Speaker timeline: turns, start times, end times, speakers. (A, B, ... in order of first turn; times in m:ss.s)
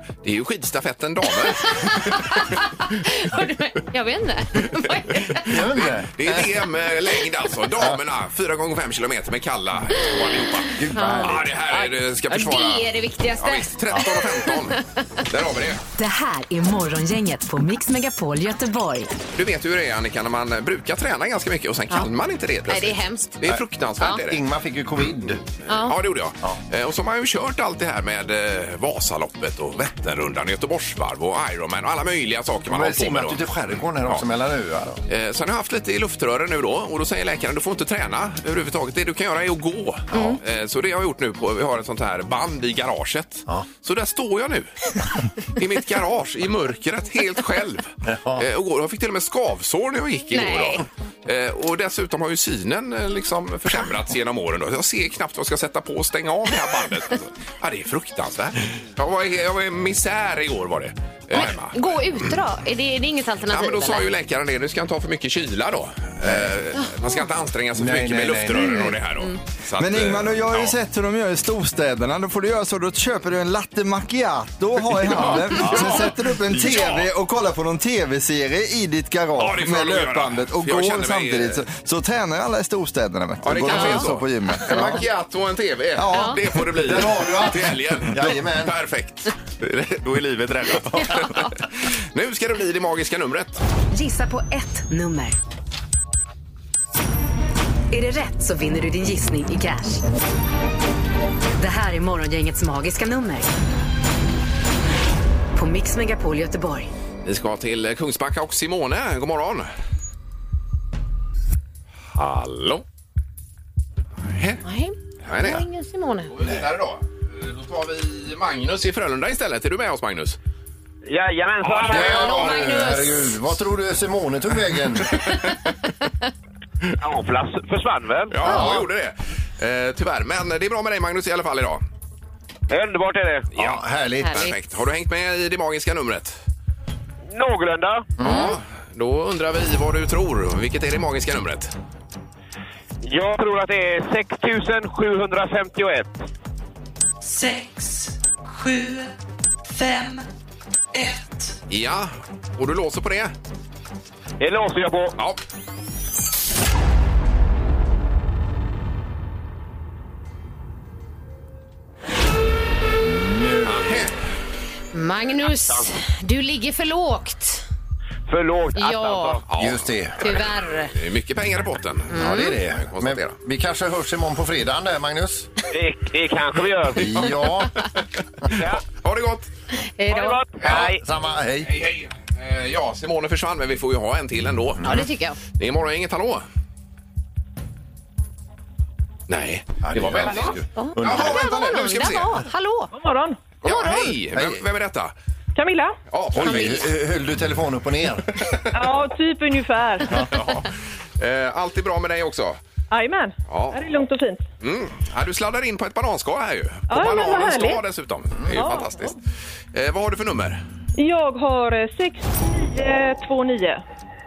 0:00.2-0:02.3 A
0:01.4-0:05.7 B
0:05.1-0:12.9 A
0:05.4-0:06.5 C
0:10.8-0:11.5 C
0:10.9-0:15.0 B
0:13.4-0:15.8 A
0:16.0-0:19.1 D
0:19.3-0:24.4 A
0:22.7-0:23.4 B
0:23.4-0:25.4 C
0:25.7-0:33.4 A
0:25.7-0:25.9 B
0:32.7-0:35.0 C
0:35.1-0:44.7 A
0:40.1-0:40.4 B
0:45.6-1:02.4 A
0:48.0-0:48.4 C
0:50.3-0:50.8 B
1:01.3-1:04.1 B
1:03.5-1:10.7 A
1:06.2-1:06.6 C
1:07.7-1:09.0 C
1:09.8-1:25.0 E
1:15.0-1:17.0 A
1:19.4-1:21.6 A
1:23.4-1:33.6 A
1:26.0-1:27.2 E
1:26.1-1:26.4 B
1:26.7-1:28.7 C
1:30.9-1:31.5 B
1:33.9-1:35.4 D
1:37.9-1:40.0 D
1:41.6-1:43.5 D
1:45.5-1:46.9 D
1:47.2-1:49.7 A
1:52.1-1:52.8 A
1:54.3-1:54.6 A
1:54.6-1:56.3 B
1:55.2-1:55.6 A
1:56.3-2:00.4 A
2:01.0-2:02.4 F
2:01.9-2:05.1 C
2:01.9-2:03.2 B
2:07.0-2:08.4 F
2:08.3-2:11.8 A
2:08.4-2:08.9 C
2:08.4-2:08.8 B
2:12.7-2:13.5 F
2:13.5-2:16.4 A
2:13.5-2:14.5 C
2:14.2-2:14.5 B
2:17.3-2:18.1 F
2:18.2-2:18.6 B
2:18.2-2:21.7 A
2:23.0-2:26.2 F
2:27.2-2:29.1 G
2:29.6-2:30.2 G
2:30.9-2:31.5 G
2:31.7-2:33.3 A
2:34.4-2:35.1 F
2:43.0-2:44.1 C
2:43.7-2:44.1 A
2:44.9-2:47.6 B
2:48.3-2:49.4 F
2:48.8-2:49.4 B
2:49.5-2:53.3 A
2:49.6-2:50.3 C
2:50.2-2:50.9 B
2:52.1-2:52.6 B
2:52.1-2:55.5 C
2:55.7-2:57.2 F
2:56.9-2:57.7 C
2:58.5-2:58.8 F
2:58.9-2:59.5 A
3:00.0-3:00.4 B
3:00.1-3:01.0 F
3:00.6-3:01.8 C
3:01.6-3:05.0 A
3:04.8-3:05.1 C
3:04.8-3:05.4 B
3:05.5-3:06.4 A
3:09.3-3:12.4 A
3:09.8-3:11.5 C
3:10.3-3:12.9 B
3:12.9-3:13.4 H
3:13.6-3:15.1 A
3:13.6-3:14.1 B
3:14.3-3:14.6 C
3:15.5-3:16.0 H
3:16.1-3:16.9 A
3:16.3-3:18.4 C
3:16.3-3:16.8 B
3:18.4-3:18.7 A
3:18.7-3:20.1 H
3:20.0-3:20.4 C
3:20.1-3:22.6 A
3:22.9-3:24.4 H
3:23.5-3:23.8 A
3:24.6-3:29.2 A
3:26.9-3:27.8 H
3:28.5-3:29.1 H
3:29.7-3:30.6 A
3:31.0-3:33.8 H